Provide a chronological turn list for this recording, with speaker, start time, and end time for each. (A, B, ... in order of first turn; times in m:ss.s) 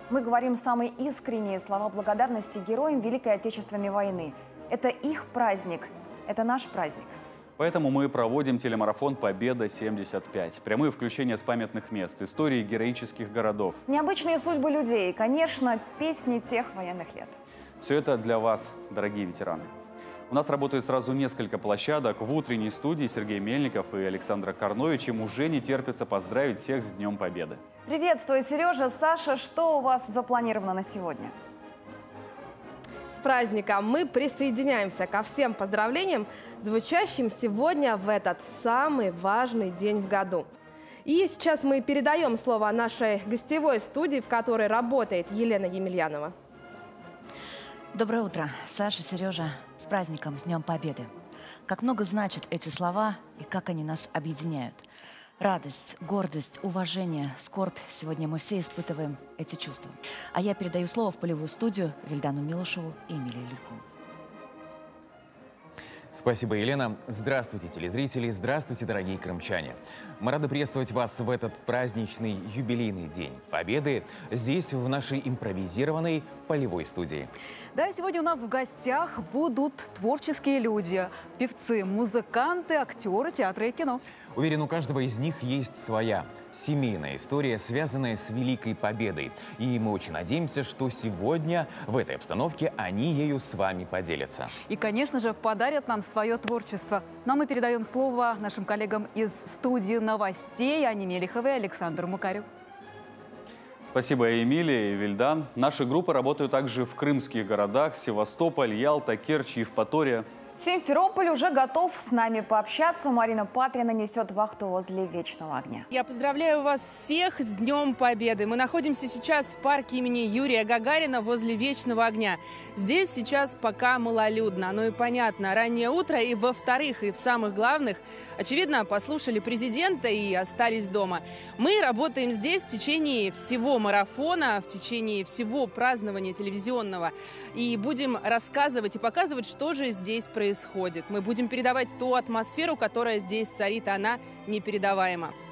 0:00.1-0:07.2 A
0:07.6-0:13.8 B
0:13.9-0:17.4 A
0:17.8-0:19.7 B
0:20.3-0:27.6 B
0:27.8-0:31.3 A
0:33.1-0:40.5 C
0:41.0-0:46.3 C
0:47.9-0:51.1 D
0:51.7-0:54.8 D
0:55.4-1:03.8 D
1:06.1-1:17.3 E
1:17.7-1:24.0 F
1:24.3-1:34.5 E
1:34.7-1:42.4 F
1:43.9-1:50.3 B
1:50.6-1:55.9 A
1:55.9-2:25.3 G